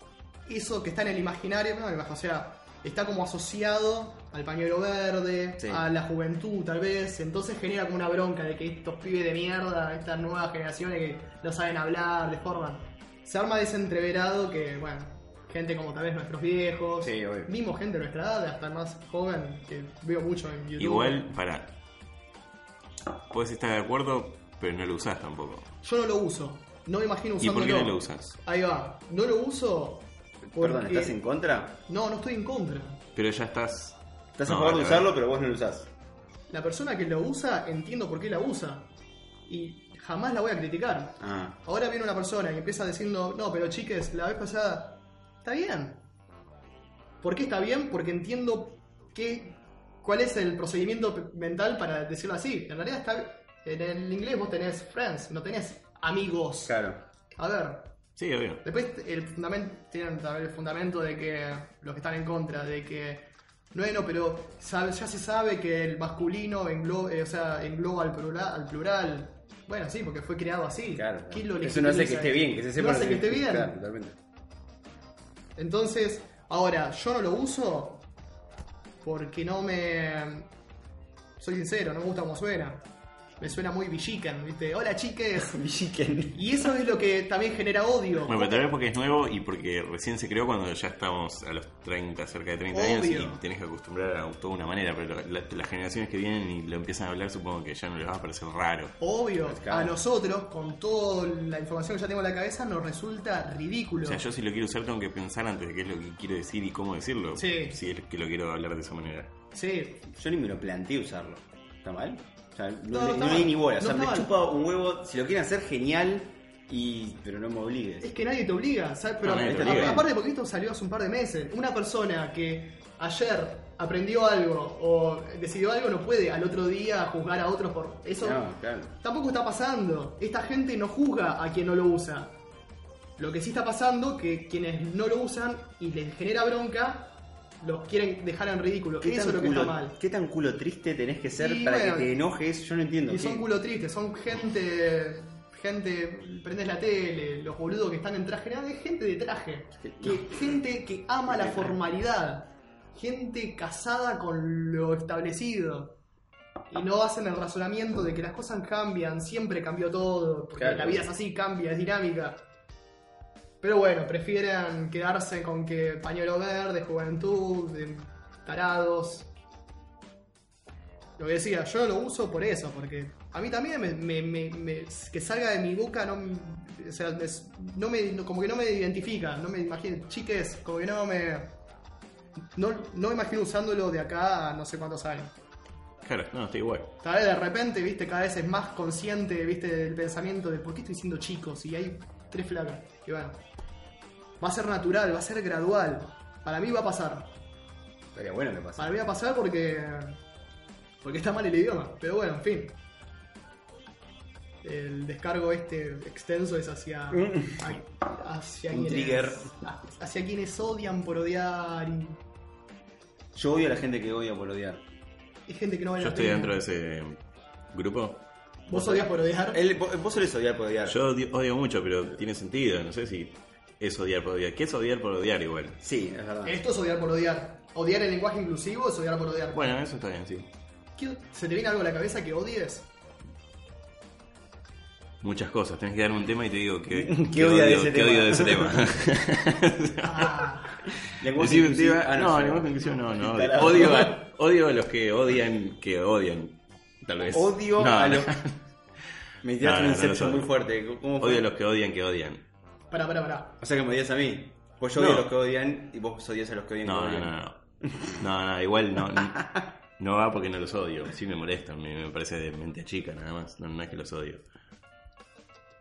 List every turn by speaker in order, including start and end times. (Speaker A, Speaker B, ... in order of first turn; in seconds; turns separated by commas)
Speaker A: 0.5-21.2, Speaker B: 5.6-5.8, Speaker B: 17.0-17.5, Speaker C: 20.8-21.7, Speaker C: 23.3-25.7, Speaker A: 25.8-31.2, Speaker C: 27.4-28.4, Speaker B: 30.5-31.8, Speaker A: 31.9-33.0, Speaker C: 33.1-35.1, Speaker B: 34.4-35.9, Speaker A: 36.5-38.9, Speaker A: 39.5-46.0, Speaker B: 41.2-41.6, Speaker A: 47.2-56.8, Speaker B: 56.6-57.0, Speaker A: 57.4-57.9, Speaker C: 58.2-58.6, Speaker A: 58.6-73.7, Speaker B: 70.9-74.2, Speaker A: 75.5-78.1, Speaker A: 79.0-80.5, Speaker A: 81.4-82.8, Speaker A: 83.4-85.6, Speaker B: 85.4-86.7, Speaker A: 86.3-88.6, Speaker C: 88.3-99.0, Speaker A: 92.7-93.4, Speaker A: 99.0-104.2, Speaker B: 99.5-100.0, Speaker C: 104.0-109.3, Speaker A: 107.4-107.8, Speaker A: 109.5-110.0, Speaker B: 110.1-118.1, Speaker A: 112.9-114.3, Speaker A: 118.0-128.4, Speaker C: 119.2-120.0, Speaker B: 119.3-120.1, Speaker B: 128.2-128.9, Speaker A: 129.0-132.4, Speaker A: 133.2-139.9, Speaker B: 139.0-143.5, Speaker A: 141.4-142.1, Speaker A: 143.1-156.0, Speaker B: 149.8-150.6, Speaker B: 151.3-151.8, Speaker A: 156.7-162.4, Speaker B: 160.6-161.1, Speaker A: 163.6-169.3, Speaker A: 171.2-181.6, Speaker A: 182.6-185.3, Speaker C: 186.0-186.9, Speaker A: 187.0-193.4, Speaker A: 194.4-197.3, Speaker B: 198.1-198.9, Speaker A: 198.8-200.2, Speaker A: 201.0-202.8, Speaker A: 204.6-212.2, Speaker B: 207.1-207.8, Speaker B: 208.7-209.5, Speaker B: 213.3-214.8, Speaker A: 215.5-216.6, Speaker C: 216.0-217.2, Speaker C: 217.7-218.3, Speaker B: 218.7-221.0, Speaker A: 218.7-219.6, Speaker C: 220.9-225.8, Speaker B: 225.8-226.6, Speaker A: 226.4-229.7, Speaker C: 229.5-230.5, Speaker A: 231.0-232.9, Speaker C: 235.2-240.5, Speaker B: 236.9-238.9, Speaker A: 240.0-240.8, Speaker B: 241.2-244.2, Speaker C: 241.2-248.6, Speaker B: 247.3-248.3, Speaker B: 249.4-251.5, Speaker C: 249.6-250.5, Speaker C: 251.2-252.4, Speaker A: 252.9-253.5, Speaker B: 253.6-258.2, Speaker C: 254.9-255.3, Speaker C: 256.8-264.4, Speaker B: 259.1-259.6